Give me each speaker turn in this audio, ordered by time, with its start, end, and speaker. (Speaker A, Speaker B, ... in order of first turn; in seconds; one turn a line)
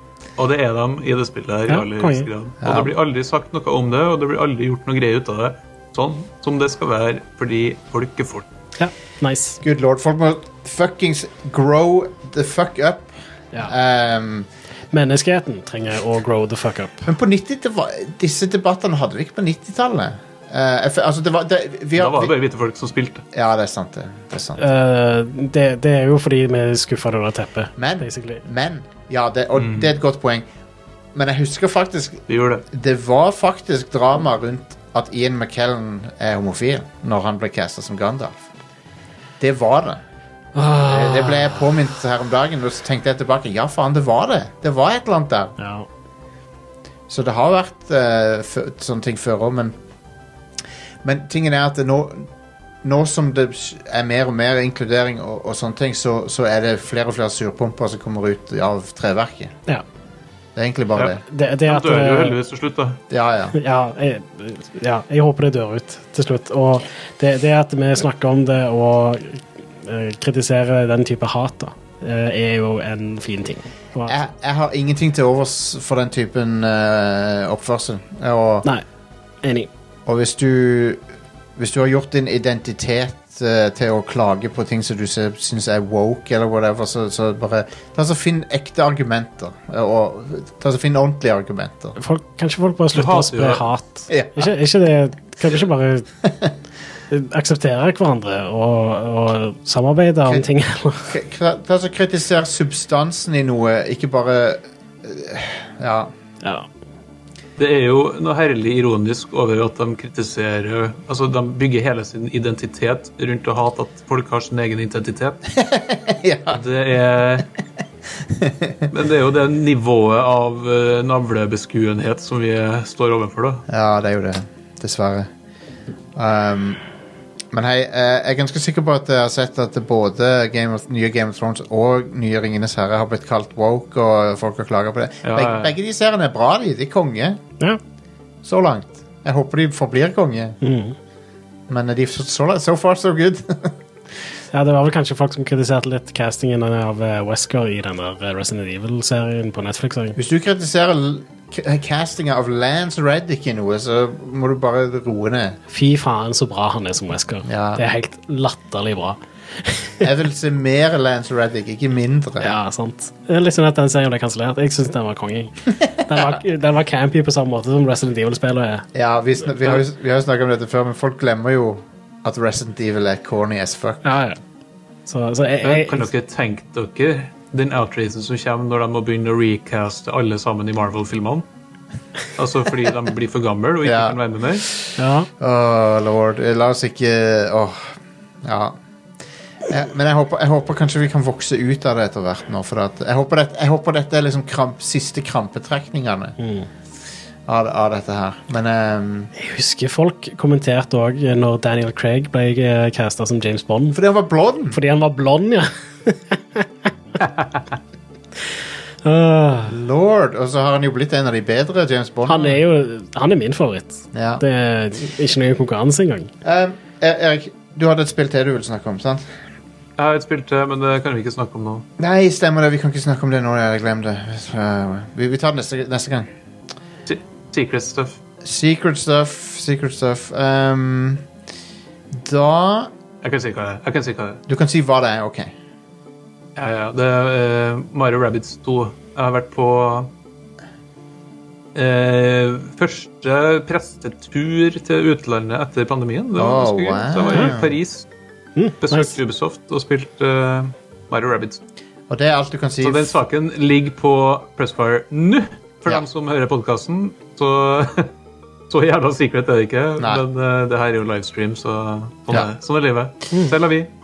Speaker A: 0.4-8.5
Speaker B: 1.7-2.3
Speaker C: 2.6-2.9
Speaker B: 8.8-9.6
Speaker C: 9.6-14.5
Speaker B: 14.9-17.1
Speaker C: 17.1-22.3
Speaker A: 22.0-23.2
Speaker C: 23.3-24.6
Speaker B: 24.6-28.4
Speaker C: 27.8-30.4
Speaker A: 29.6-29.9
Speaker C: 31.1-38.5
Speaker A: 32.3-32.6
Speaker C: 39.4-40.0
Speaker B: 40.5-41.7
Speaker C: 40.9-45.6
Speaker B: 45.6-45.9
Speaker C: 47.1-49.8
Speaker C: 51.0-52.3
Speaker C: 52.8-59.5
Speaker C: 60.6-61.2
Speaker A: 61.0-63.0
Speaker B: 61.3-62.4
Speaker C: 63.1-63.6
Speaker B: 63.5-74.2
Speaker C: 74.1-78.7
Speaker B: 79.4-79.7
Speaker C: 80.1-81.0
Speaker C: 81.6-92.0
Speaker B: 92.0-96.1
Speaker A: 92.9-93.6
Speaker C: 94.1-94.5
Speaker C: 96.2-96.5
Speaker B: 97.1-101.2
Speaker C: 101.1-106.1
Speaker A: 107.6-115.4
Speaker C: 115.6-116.6
Speaker A: 116.5-117.5
Speaker C: 118.3-118.9
Speaker A: 118.9-123.6
Speaker C: 123.7-125.3
Speaker C: 126.2-126.8
Speaker C: 127.5-137.4
Speaker A: 135.2-135.7
Speaker C: 138.4-140.6
Speaker B: 140.6-141.0
Speaker C: 141.7-143.8
Speaker B: 144.5-150.2
Speaker C: 150.2-155.6
Speaker B: 155.7-160.1
Speaker C: 157.4-157.8
Speaker C: 160.0-162.6
Speaker B: 162.4-168.9
Speaker C: 168.9-174.1
Speaker B: 169.6-169.8
Speaker B: 174.1-174.4
Speaker B: 175.1-176.1
Speaker A: 175.6-181.4
Speaker A: 182.4-184.7
Speaker C: 183.8-184.2
Speaker B: 185.0-185.3
Speaker C: 185.4-188.8
Speaker C: 189.7-196.4
Speaker B: 196.4-196.7
Speaker C: 197.5-199.3
Speaker B: 199.3-204.0
Speaker C: 203.9-204.8
Speaker B: 204.7-206.7
Speaker B: 209.0-209.8
Speaker C: 209.7-212.6
Speaker B: 212.3-216.3
Speaker C: 214.1-214.4
Speaker C: 216.4-219.3
Speaker A: 220.0-221.9
Speaker C: 222.0-226.3
Speaker A: 227.1-228.2
Speaker C: 228.4-231.3
Speaker C: 232.1-232.9
Speaker A: 233.2-234.4
Speaker C: 234.5-235.5
Speaker A: 236.6-240.1
Speaker A: 241.8-248.1
Speaker C: 246.4-247.8
Speaker B: 248.6-249.2
Speaker A: 248.8-251.6
Speaker C: 252.1-253.2
Speaker A: 252.8-258.1
Speaker A: 258.7-263.9